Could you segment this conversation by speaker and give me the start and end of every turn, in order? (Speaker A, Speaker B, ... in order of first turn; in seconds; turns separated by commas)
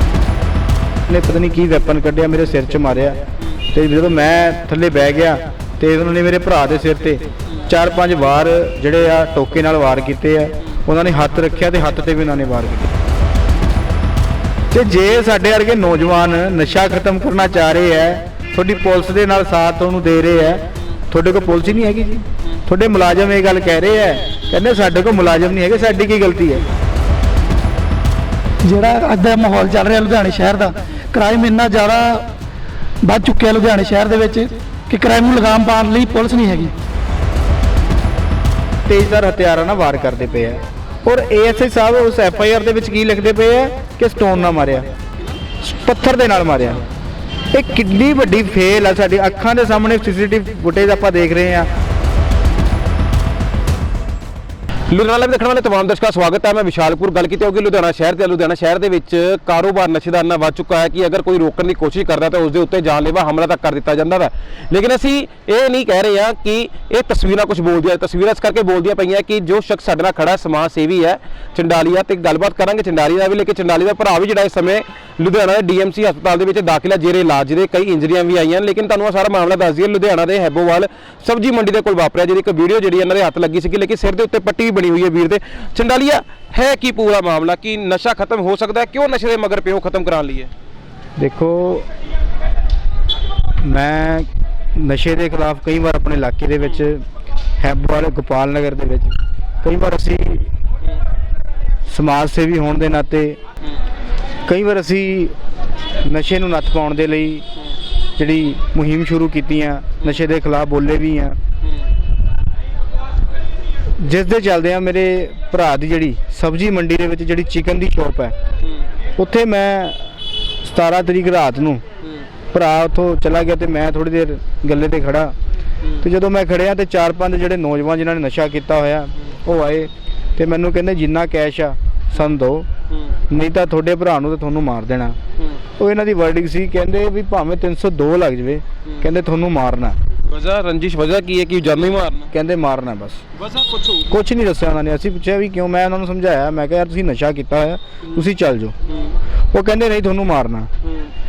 Speaker A: 1.1-12.9, Speaker A: 14.7-26.6, Speaker B: 28.6-32.3, Speaker B: 33.0-36.8, Speaker A: 38.9-44.9, Speaker A: 45.6-46.9, Speaker A: 47.5-51.7, Speaker C: 54.9-90.5, Speaker A: 91.2-91.9, Speaker A: 93.6-97.0, Speaker A: 97.6-100.5, Speaker A: 101.9-103.4, Speaker A: 104.5-105.4, Speaker A: 106.0-107.5, Speaker A: 108.2-111.4, Speaker A: 114.0-118.3, Speaker C: 118.6-118.9, Speaker A: 119.2-120.1, Speaker A: 120.6-121.8, Speaker A: 122.5-125.4, Speaker A: 126.0-132.7, Speaker A: 133.3-135.2, Speaker A: 135.8-140.0, Speaker C: 140.3-142.3, Speaker A: 142.3-143.2, Speaker C: 143.3-144.1, Speaker A: 144.1-148.8, Speaker C: 148.0-148.3, Speaker C: 148.8-149.2, Speaker A: 149.5-150.7, Speaker C: 150.8-151.1